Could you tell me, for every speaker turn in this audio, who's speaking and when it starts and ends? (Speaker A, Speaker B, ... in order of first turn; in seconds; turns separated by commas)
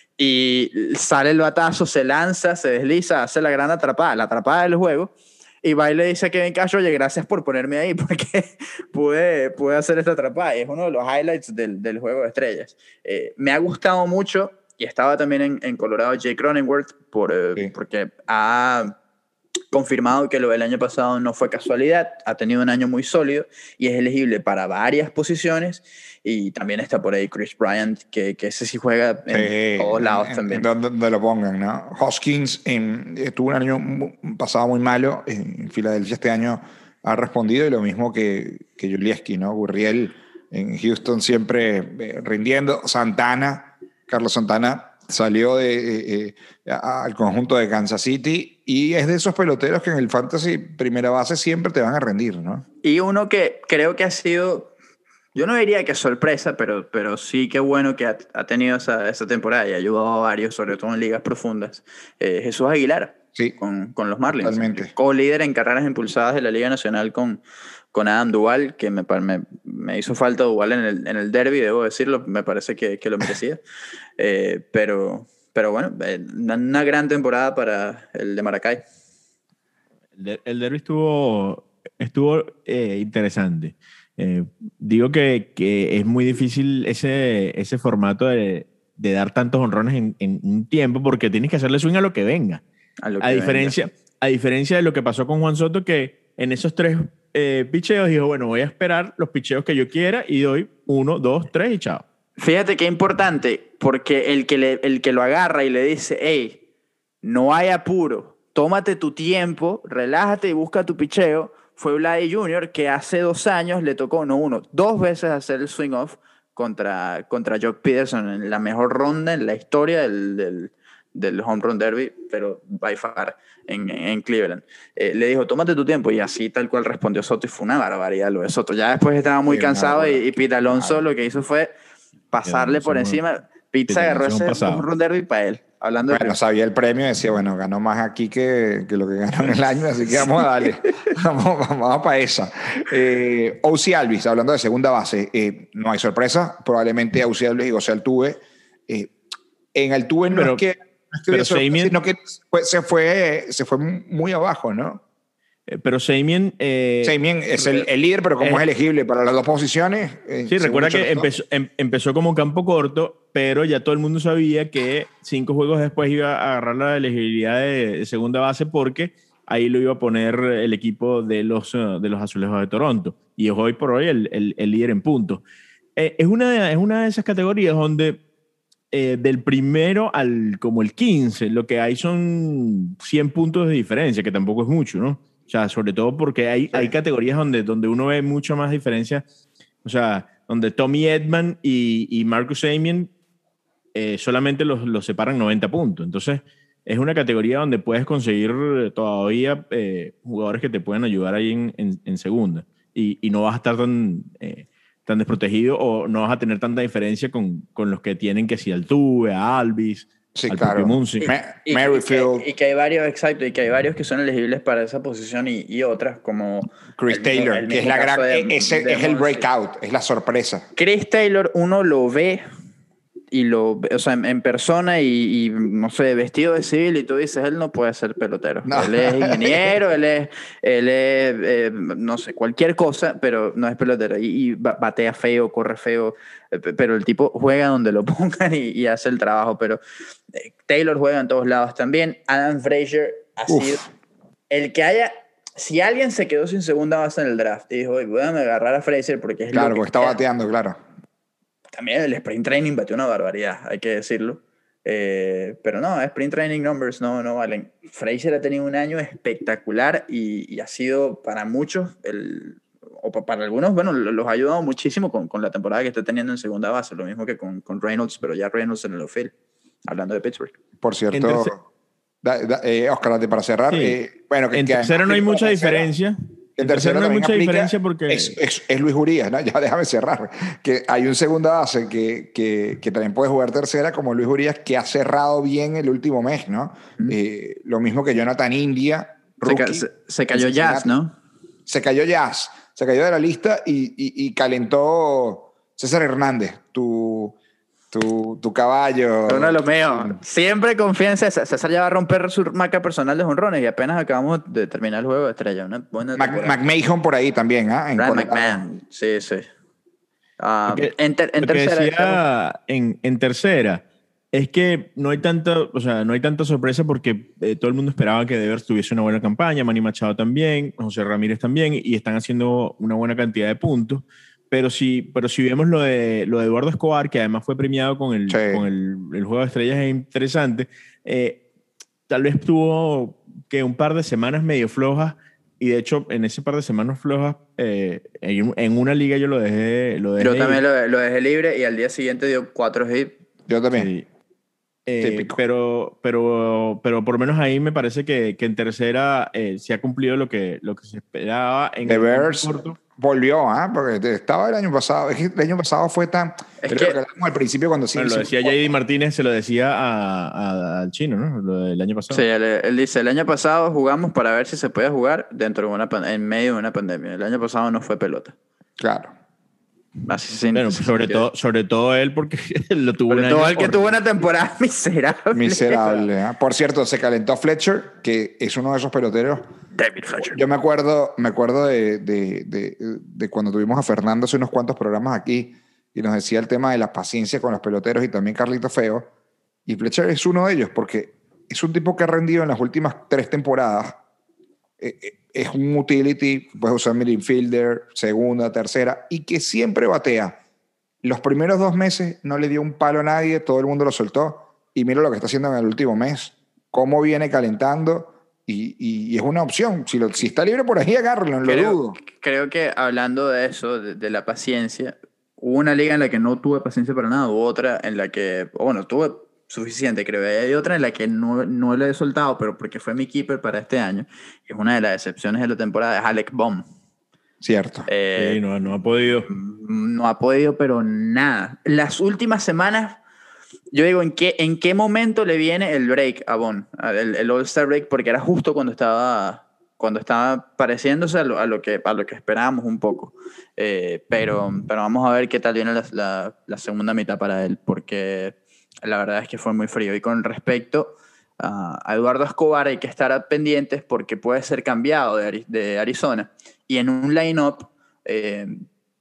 Speaker A: 0.2-18.9, Speaker A: 19.7-30.6, Speaker B: 29.3-52.6, Speaker A: 52.8-54.7, Speaker A: 55.3-67.4, Speaker B: 64.4-64.9, Speaker A: 67.9-73.6, Speaker A: 74.2-78.8, Speaker C: 80.2-92.6, Speaker A: 93.0-93.7, Speaker C: 93.2-102.0, Speaker A: 102.4-106.6, Speaker A: 107.2-131.7, Speaker B: 129.4-131.1, Speaker A: 132.3-136.4, Speaker C: 132.5-133.2, Speaker C: 133.9-134.8, Speaker B: 136.1-149.1, Speaker B: 149.7-155.0, Speaker C: 150.3-150.6, Speaker C: 151.3-151.9, Speaker C: 155.7-157.8, Speaker B: 157.0-161.3, Speaker C: 160.5-175.4, Speaker C: 175.9-178.2, Speaker C: 178.9-189.2, Speaker C: 189.8-193.1, Speaker C: 193.9-211.3, Speaker B: 210.3-212.5, Speaker A: 211.7-219.4, Speaker B: 217.0-220.7, Speaker A: 220.8-222.4, Speaker A: 223.3-239.8, Speaker B: 228.6-229.7, Speaker A: 240.3-243.8, Speaker B: 243.5-243.9, Speaker A: 244.5-250.2, Speaker B: 249.5-250.8, Speaker A: 251.7-269.3, Speaker A: 269.8-270.6, Speaker B: 270.8-271.6, Speaker C: 271.1-271.5, Speaker B: 272.2-275.9, Speaker C: 273.7-274.0, Speaker C: 274.5-278.4, Speaker B: 276.6-290.9, Speaker A: 289.4-291.1, Speaker B: 291.6-297.4, Speaker B: 297.9-300.2, Speaker A: 299.3-306.6, Speaker B: 306.2-308.6, Speaker A: 308.0-309.5, Speaker A: 310.4-312.2, Speaker C: 310.7-331.4, Speaker B: 328.3-328.7, Speaker C: 332.1-340.6, Speaker A: 340.2-343.2, Speaker B: 343.5-343.9, Speaker C: 343.7-344.1, Speaker C: 344.9-352.8, Speaker B: 345.0-345.4, Speaker B: 351.8-358.7, Speaker A: 356.6-357.0, Speaker C: 357.9-362.2, Speaker A: 362.1-368.3, Speaker B: 368.8-369.1, Speaker A: 370.0-371.2, Speaker C: 370.5-373.9, Speaker A: 373.1-376.1, Speaker B: 375.3-379.4, Speaker A: 379.7-380.4, Speaker B: 380.2-389.1, Speaker B: 389.7-394.0, Speaker B: 394.8-400.4, Speaker B: 401.0-412.0, Speaker A: 411.4-426.6, Speaker B: 427.4-427.9, Speaker A: 427.9-428.4, Speaker C: 428.1-429.3, Speaker A: 429.3-433.0, Speaker A: 433.7-458.6